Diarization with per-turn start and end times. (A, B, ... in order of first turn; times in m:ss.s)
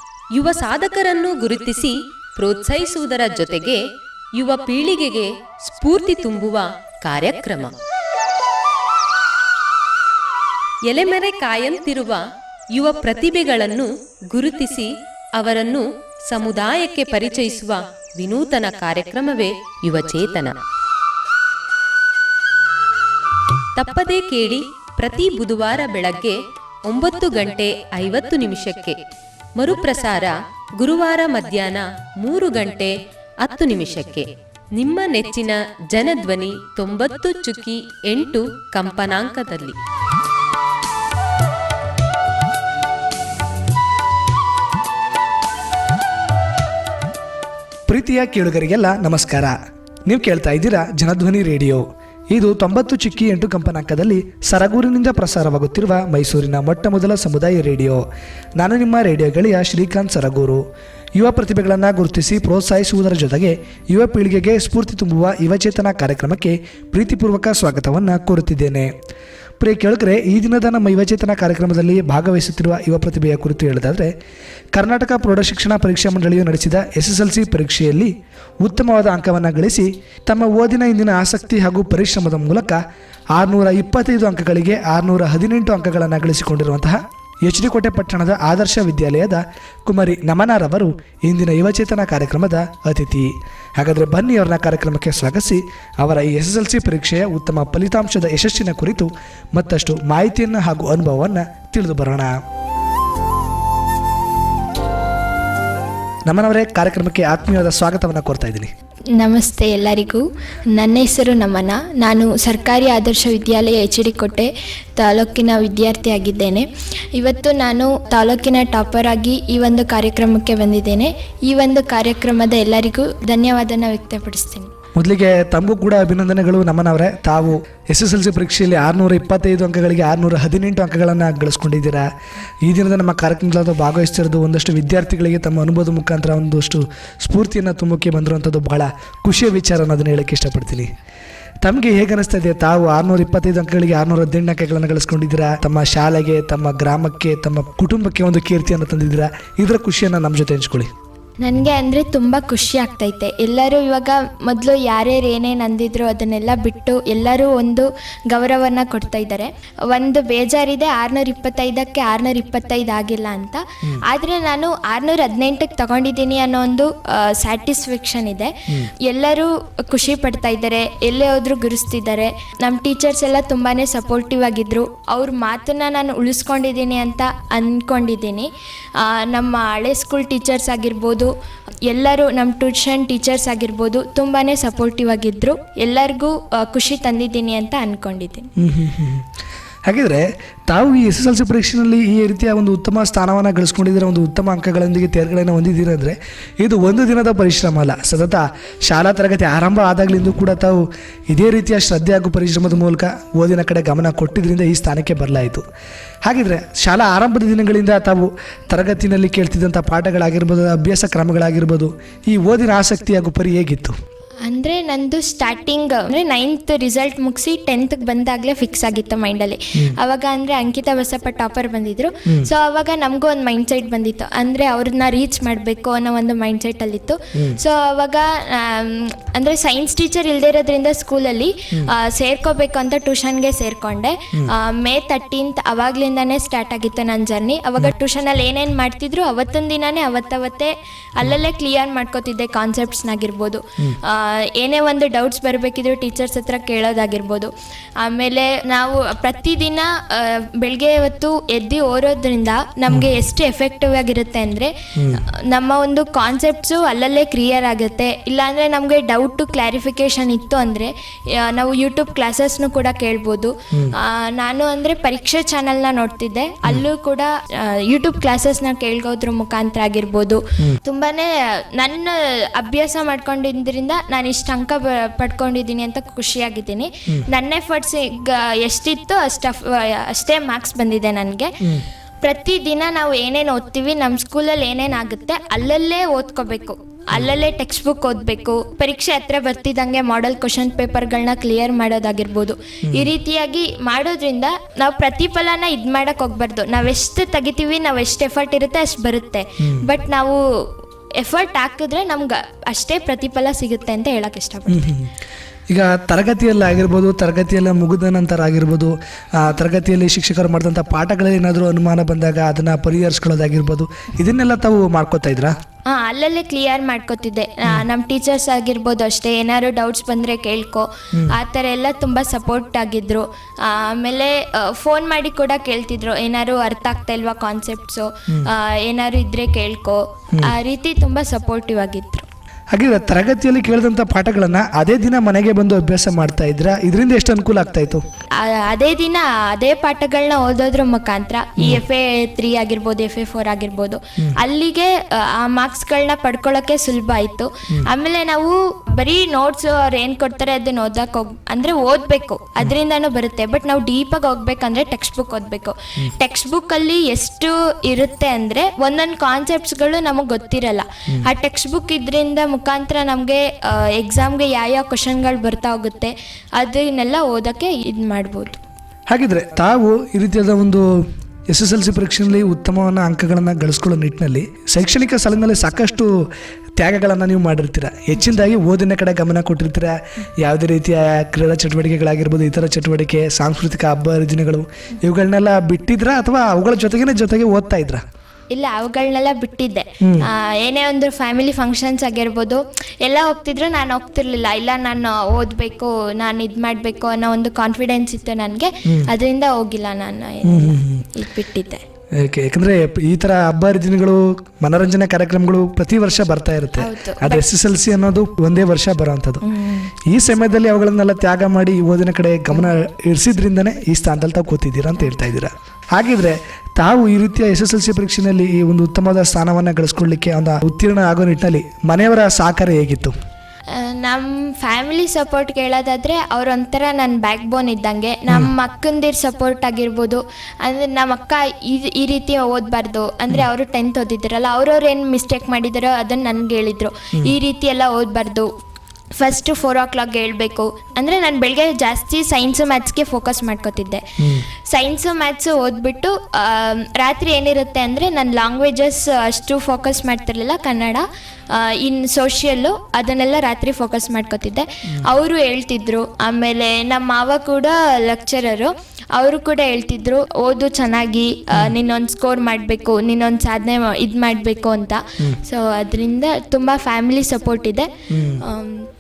0:00.3-0:03.8 A
0:04.4-0:07.8 A
0:10.9-0:20.6 A
0:23.8-0:29.0 A
0:29.6-0:39.8 A
0:47.9-0:49.6 B
0:50.1-0:58.0 B
0:58.6-1:00.6 B
1:01.2-1:08.9 B
1:09.6-1:14.1 B
1:14.7-1:22.8 B
1:23.3-1:42.4 B
1:46.3-1:48.7 B
1:49.2-2:04.7 C
2:05.0-2:12.1 B
2:12.6-2:20.9 B
2:21.6-2:30.9 B
2:31.4-3:01.3 C
3:01.9-3:08.5 C
3:08.6-3:09.3 B
3:09.9-3:25.6 B
3:26.2-3:34.0 B
3:34.4-4:41.6 C
4:15.0-4:15.2 B
4:42.2-5:00.4 C
5:01.2-5:05.0 C
5:04.7-5:05.1 B
5:05.7-5:15.6 B
5:15.9-5:32.3 C
5:32.7-5:38.0 B
5:38.4-6:08.6 C
6:09.1-6:16.3 B
6:16.8-6:28.0 B
6:28.5-6:41.8 C
6:30.0-6:30.3 B
6:40.4-6:41.1 B
6:42.2-6:49.4 B
6:46.8-6:47.4 C
6:49.4-6:49.9 C
6:50.0-7:03.1 B
7:03.7-7:18.5 C
7:19.2-7:48.9 C
7:24.2-7:24.4 B
7:48.1-7:48.4 B